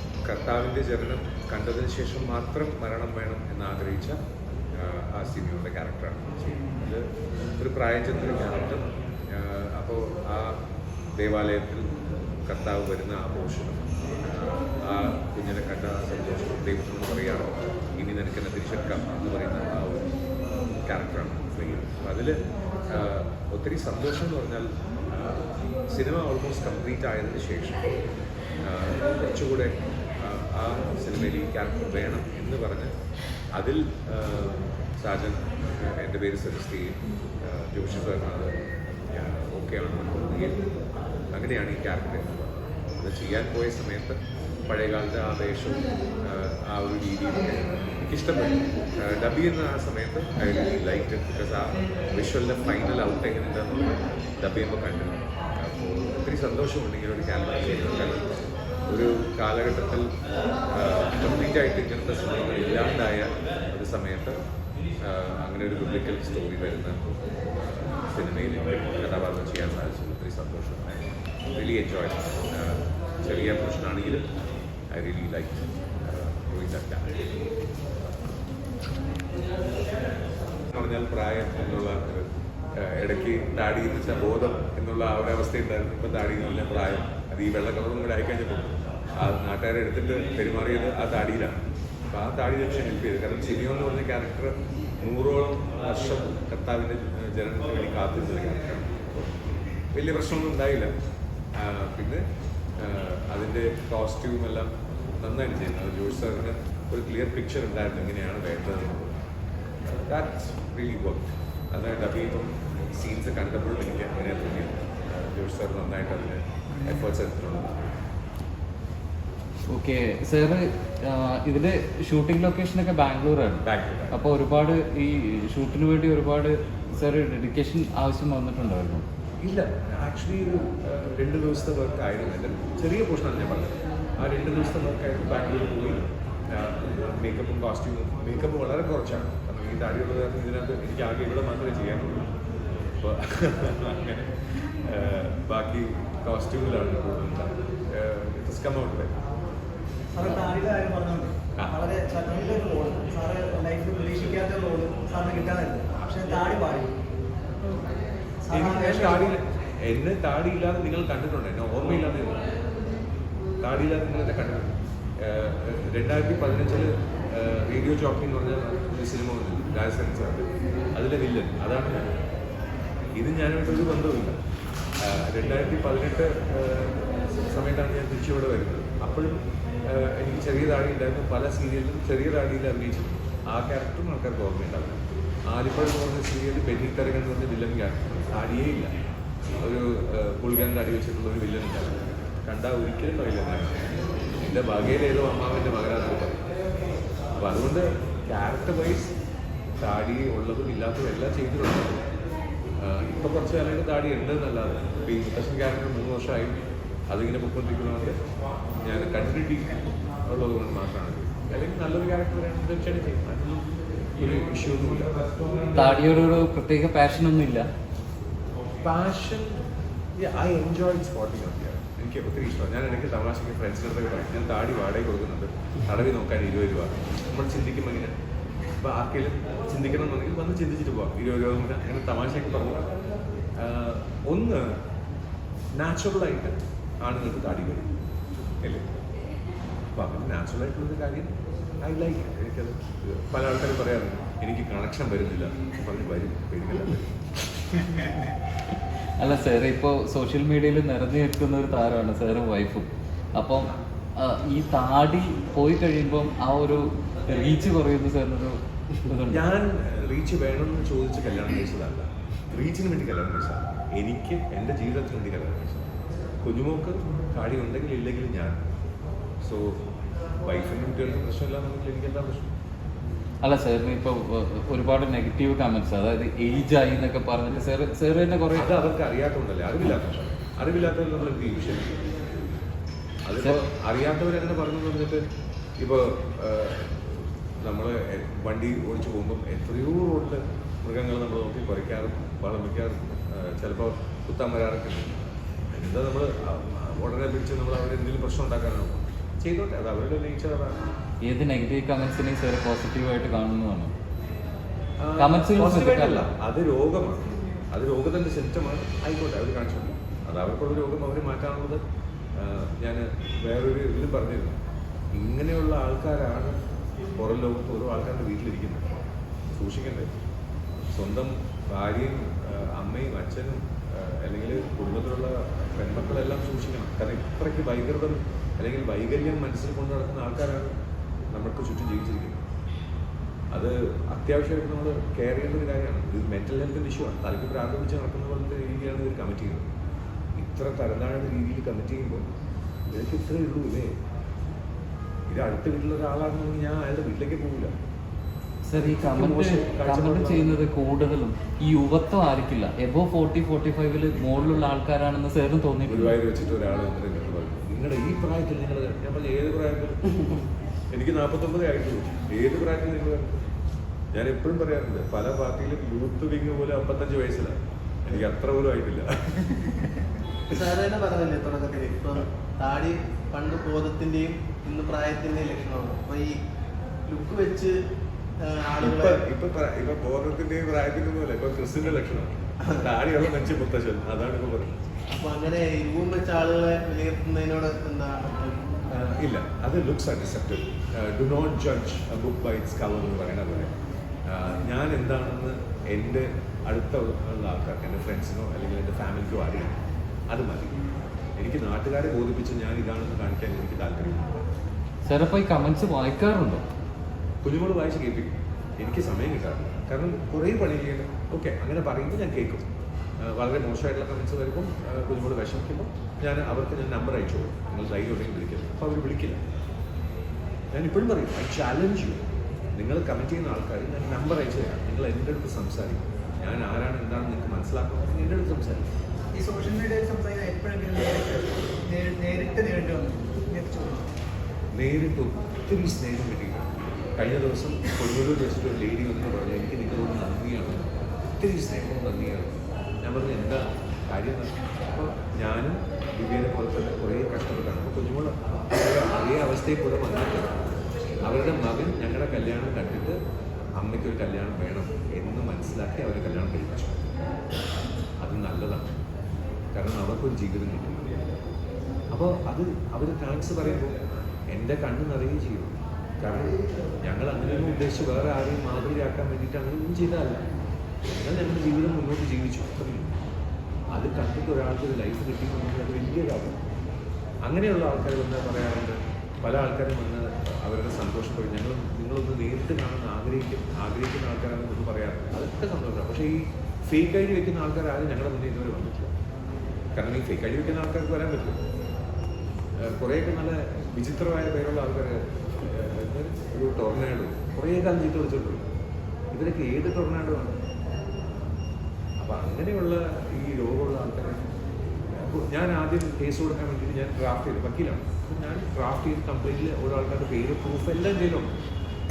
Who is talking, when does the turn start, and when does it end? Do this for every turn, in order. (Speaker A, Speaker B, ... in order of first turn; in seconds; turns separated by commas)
Speaker A: 0.2-4.2, Speaker A: 4.7-10.6, Speaker A: 11.2-11.9, Speaker A: 12.4-20.1, Speaker A: 20.8-27.9, Speaker A: 28.6-32.9, Speaker A: 33.5-38.6, Speaker A: 39.1-40.6, Speaker A: 41.3-58.3, Speaker A: 58.9-60.1, Speaker A: 60.7-64.4, Speaker A: 65.0-67.0, Speaker A: 67.6-74.2, Speaker A: 74.9-77.1, Speaker A: 80.7-99.4, Speaker A: 99.9-100.9, Speaker A: 101.5-102.2, Speaker A: 102.8-109.1, Speaker A: 109.9-117.9, Speaker B: 119.7-129.0, Speaker A: 123.6-124.2, Speaker A: 129.4-142.3, Speaker A: 143.0-149.1, Speaker C: 150.1-156.9, Speaker C: 158.4-159.3, Speaker A: 158.5-162.5, Speaker A: 163.6-172.1, Speaker A: 173.1-174.4, Speaker A: 175.0-179.3, Speaker A: 179.9-188.9, Speaker A: 189.6-196.4, Speaker A: 197.3-199.1, Speaker A: 199.8-202.0, Speaker A: 202.8-206.6, Speaker A: 207.1-208.2, Speaker A: 208.8-215.7, Speaker B: 215.7-217.7, Speaker A: 218.8-219.6, Speaker A: 220.1-228.1, Speaker A: 228.8-232.9, Speaker A: 233.6-234.8, Speaker A: 235.7-237.9, Speaker A: 238.6-238.8, Speaker A: 239.9-248.3, Speaker B: 249.2-259.4, Speaker A: 259.3-268.6, Speaker A: 269.4-269.8, Speaker A: 270.4-272.5, Speaker B: 273.4-278.8, Speaker A: 278.6-282.1, Speaker A: 283.2-285.2, Speaker A: 285.8-295.2, Speaker A: 295.7-300.8, Speaker B: 301.2-303.9, Speaker A: 305.0-311.8, Speaker B: 305.2-306.3, Speaker A: 312.4-314.6, Speaker A: 315.1-316.6, Speaker A: 317.1-319.0, Speaker A: 319.5-320.1, Speaker A: 320.9-330.7, Speaker A: 331.3-332.4, Speaker A: 333.5-339.7, Speaker A: 340.4-342.2, Speaker A: 342.9-343.9, Speaker A: 345.3-347.7, Speaker B: 348.7-356.1, Speaker A: 348.7-350.6, Speaker A: 355.9-360.4, Speaker A: 360.9-363.4, Speaker A: 364.1-369.8, Speaker D: 370.5-376.4, Speaker D: 377.1-377.8, Speaker D: 378.4-379.2, Speaker A: 378.8-384.7, Speaker D: 385.1-388.6, Speaker A: 388.9-393.7, Speaker A: 394.3-399.8, Speaker A: 400.3-404.4, Speaker B: 405.1-406.6, Speaker A: 407.4-412.7, Speaker A: 413.2-419.4, Speaker A: 420.7-422.2, Speaker A: 422.8-428.9, Speaker C: 429.3-434.1, Speaker A: 434.7-440.8, Speaker A: 441.4-450.6, Speaker A: 451.2-453.2, Speaker A: 453.8-457.1, Speaker A: 458.2-458.9, Speaker A: 459.7-461.0, Speaker A: 462.1-470.4, Speaker A: 471.0-473.2, Speaker A: 473.9-476.6, Speaker A: 477.4-489.1, Speaker A: 489.9-491.6, Speaker A: 492.8-498.6, Speaker A: 499.3-500.6, Speaker A: 502.2-504.4, Speaker A: 505.1-511.5